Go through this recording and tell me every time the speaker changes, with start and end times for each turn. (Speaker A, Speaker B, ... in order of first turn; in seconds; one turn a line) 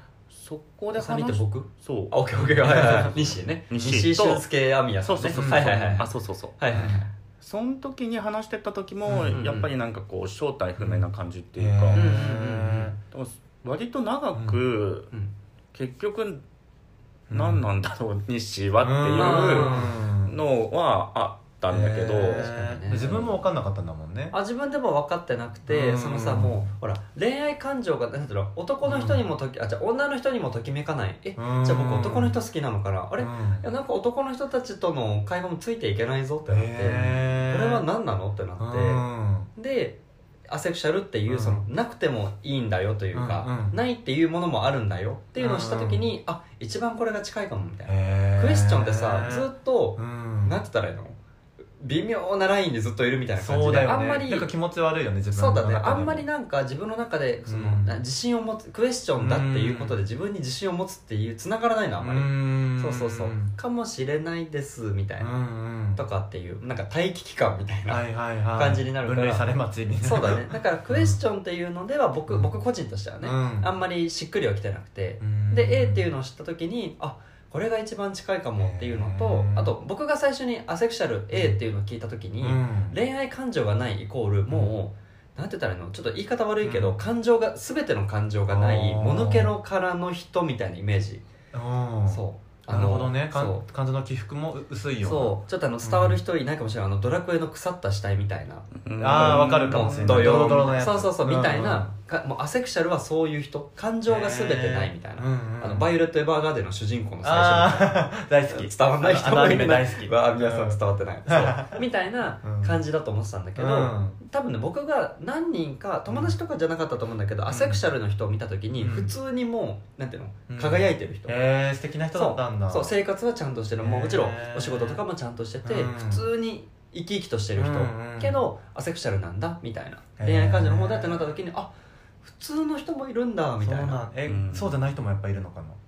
Speaker A: 0.3-4.4
Speaker B: 0.9-7.1
Speaker C: 2.4-3.1
Speaker A: 5.0-12.1
Speaker C: 5.3-6.0
Speaker C: 6.7-7.0
Speaker C: 9.1-9.4
Speaker B: 9.3-9.7
Speaker C: 10.8-12.9
Speaker B: 11.9-12.9
Speaker A: 13.1-15.1
Speaker C: 14.3-14.6
Speaker A: 15.7-16.4
Speaker C: 17.3-17.6
Speaker A: 17.3-22.4
Speaker C: 18.8-20.4
Speaker B: 19.1-19.9
Speaker C: 21.7-24.3
Speaker B: 22.3-23.3
Speaker B: 24.3-51.2
Speaker C: 25.7-26.6
Speaker C: 28.8-29.2
Speaker C: 31.4-32.3
Speaker C: 33.2-33.7
Speaker C: 36.5-37.9
Speaker C: 38.6-39.5
Speaker C: 41.3-41.6
Speaker C: 43.1-43.8
Speaker C: 45.4-46.0
Speaker C: 47.9-50.6
Speaker B: 51.8-54.5
Speaker C: 53.4-56.3
Speaker B: 55.3-65.3
Speaker C: 57.5-58.0
Speaker C: 59.2-60.0
Speaker C: 62.0-63.5
Speaker C: 65.2-66.0
Speaker B: 65.9-69.5
Speaker C: 67.9-71.2
Speaker B: 70.0-91.2
Speaker C: 73.2-73.7
Speaker C: 75.2-76.0
Speaker C: 78.6-79.7
Speaker C: 81.3-81.6
Speaker C: 82.4-83.0
Speaker C: 86.6-87.0
Speaker C: 88.5-89.5
Speaker C: 91.5-96.2
Speaker B: 92.1-93.6
Speaker B: 95.0-121.4
Speaker A: 98.8-100.6
Speaker C: 99.0-101.9
Speaker C: 104.1-105.9
Speaker C: 107.2-111.9
Speaker C: 112.4-112.8
Speaker C: 113.5-114.2
Speaker C: 116.1-116.4
Speaker C: 117.5-117.8
Speaker C: 118.8-119.1
Speaker C: 120.5-123.0
Speaker B: 122.1-134.0
Speaker C: 123.8-125.0
Speaker C: 125.6-126.3
Speaker C: 127.5-128.4
Speaker C: 130.2-131.3
Speaker C: 133.6-135.8
Speaker A: 134.2-134.8